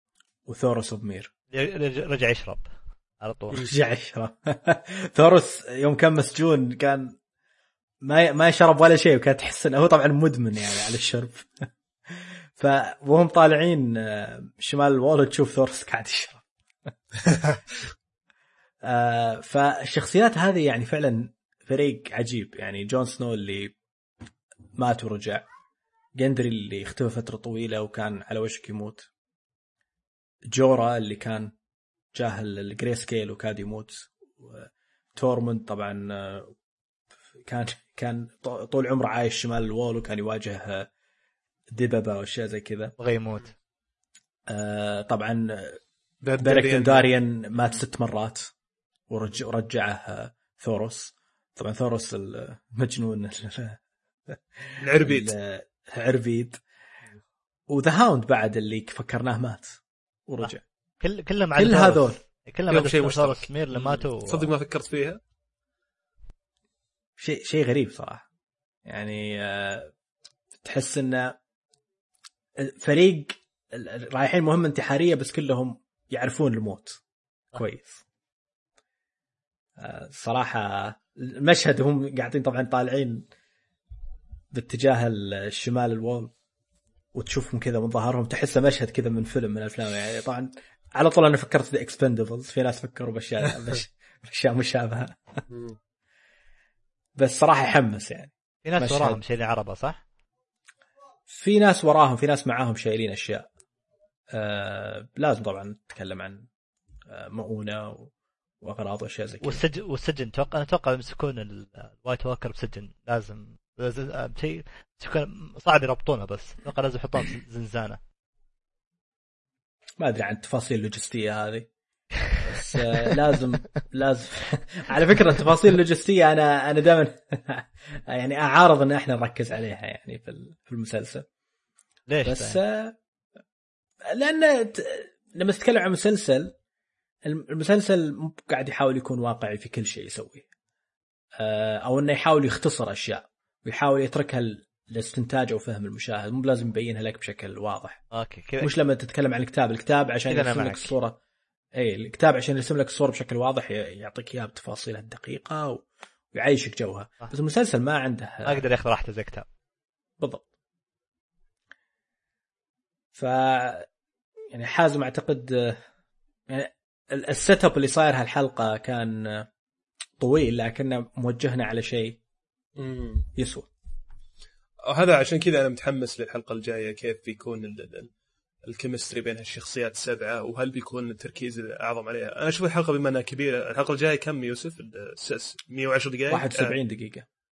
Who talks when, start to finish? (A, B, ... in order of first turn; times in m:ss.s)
0:00.5-0:01.3 A
0:01.5-0:03.7 B
0:03.5-0:07.2 A
0:08.0-0:16.5 A
0:17.3-0:17.6 A
0:18.8-0:23.7 A
0:24.8-0:25.4 A
0:26.2-0:29.1 A
0:30.5-0:31.5 A
0:32.1-0:36.5 A
0:37.4-0:40.9 A
0:41.7-0:43.0 A
0:43.0-0:43.5 B
0:44.5-0:45.8 A
0:46.2-0:47.1 C
0:46.4-0:48.5 A
0:49.1-0:56.6 A
0:54.8-0:55.4 C
0:57.7-1:00.6 A
1:00.4-1:04.5 B
1:01.6-1:02.2 A
1:02.7-1:05.2 C
1:07.2-1:08.3 A
1:08.9-1:09.9 A
1:10.6-1:11.4 A
1:12.6-1:17.0 A
1:17.5-1:18.0 A
1:19.8-1:23.3 A
1:24.5-1:26.3 A
1:27.1-1:35.4 A
1:35.5-1:35.8 C
1:37.2-1:39.2 A
1:38.6-1:40.0 B
1:41.3-1:43.5 A
1:44.3-1:46.5 A
1:47.1-1:49.6 A
1:49.4-1:58.0 B
2:00.0-2:01.7 A
2:02.3-2:03.1 B
2:02.4-2:11.2 A
2:12.1-2:12.6 B
2:12.2-2:13.0 A
2:14.1-2:16.5 A
2:17.2-2:20.5 A
2:21.4-2:28.0 A
2:28.1-2:28.7 B
2:28.6-2:31.2 A
2:30.3-2:30.9 B
2:31.8-2:38.6 A
2:38.4-2:39.5 B
2:40.2-2:40.5 A
2:43.1-2:43.9 A
2:44.5-2:45.8 A
2:46.5-2:49.5 A
2:50.2-2:52.2 A
2:52.8-2:53.3 C
2:53.4-2:53.7 A
2:54.9-2:58.1 C
2:58.6-3:06.8 C
3:06.3-3:07.3 A